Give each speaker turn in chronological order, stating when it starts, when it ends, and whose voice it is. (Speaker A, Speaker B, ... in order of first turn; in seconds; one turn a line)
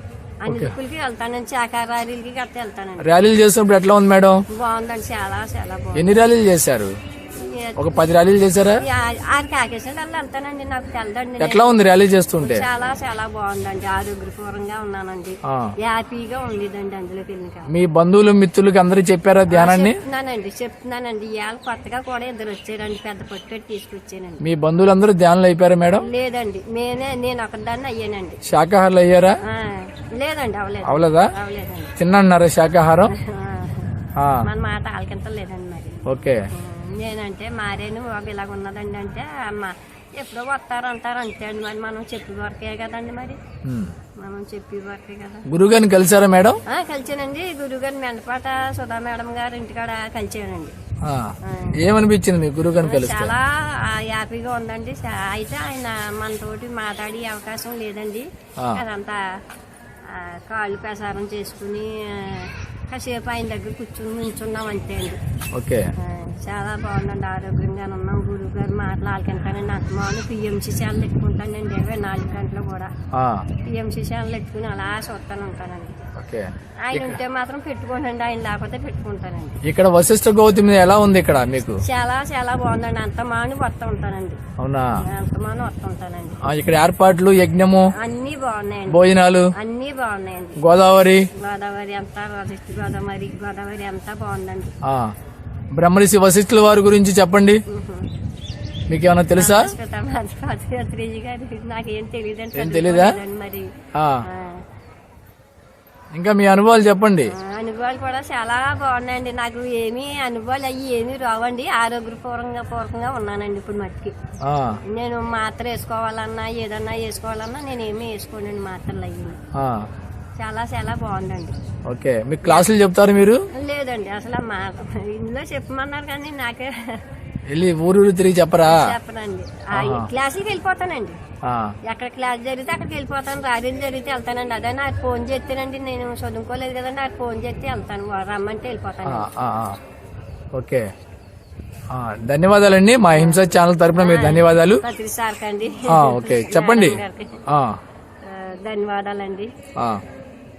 Speaker A: 0.4-3.1
Speaker B: 0.5-0.7
Speaker B: 3.0-4.4
Speaker A: 4.5-6.2
Speaker B: 5.9-6.9
Speaker A: 7.3-8.1
Speaker B: 7.8-8.8
Speaker A: 8.8-17.7
Speaker B: 11.4-12.7
Speaker B: 17.7-20.0
Speaker A: 19.5-24.4
Speaker B: 24.4-26.1
Speaker A: 25.9-28.4
Speaker B: 28.4-29.4
Speaker A: 29.4-31.9
Speaker B: 30.8-31.3
Speaker B: 32.0-33.1
Speaker A: 33.1-33.9
Speaker B: 34.2-34.4
Speaker A: 34.4-43.4
Speaker B: 36.1-36.4
Speaker B: 43.6-43.9
Speaker A: 44.2-45.5
Speaker B: 45.5-46.6
Speaker A: 46.7-50.7
Speaker B: 51.0-53.3
Speaker A: 51.4-51.8
Speaker A: 52.8-59.2
Speaker A: 60.1-65.2
Speaker B: 65.5-65.9
Speaker A: 66.0-72.9
Speaker B: 73.1-73.5
Speaker A: 73.6-76.0
Speaker B: 76.2-77.2
Speaker A: 76.8-79.6
Speaker B: 79.6-81.8
Speaker A: 81.8-84.4
Speaker B: 84.6-84.9
Speaker A: 85.0-86.4
Speaker B: 86.4-87.9
Speaker A: 87.9-89.0
Speaker B: 88.9-89.5
Speaker A: 89.5-90.6
Speaker B: 90.6-91.2
Speaker A: 91.3-94.7
Speaker B: 94.8-95.1
Speaker B: 95.7-97.6
Speaker A: 97.7-98.1
Speaker B: 98.9-99.7
Speaker A: 99.3-103.7
Speaker B: 102.5-103.2
Speaker B: 104.0-104.2
Speaker A: 104.2-104.6
Speaker B: 106.1-107.3
Speaker A: 107.3-114.1
Speaker B: 114.4-114.8
Speaker A: 114.9-119.4
Speaker B: 119.5-119.9
Speaker A: 120.4-121.5
Speaker B: 121.9-123.4
Speaker A: 122.4-122.7
Speaker A: 123.5-127.0
Speaker B: 127.5-128.9
Speaker A: 128.6-131.2
Speaker B: 129.7-130.1
Speaker B: 131.4-131.7
Speaker A: 131.8-139.3
Speaker B: 139.1-139.8
Speaker B: 140.5-140.9
Speaker B: 141.9-144.8
Speaker A: 143.1-147.4
Speaker B: 145.9-147.8
Speaker A: 148.2-149.5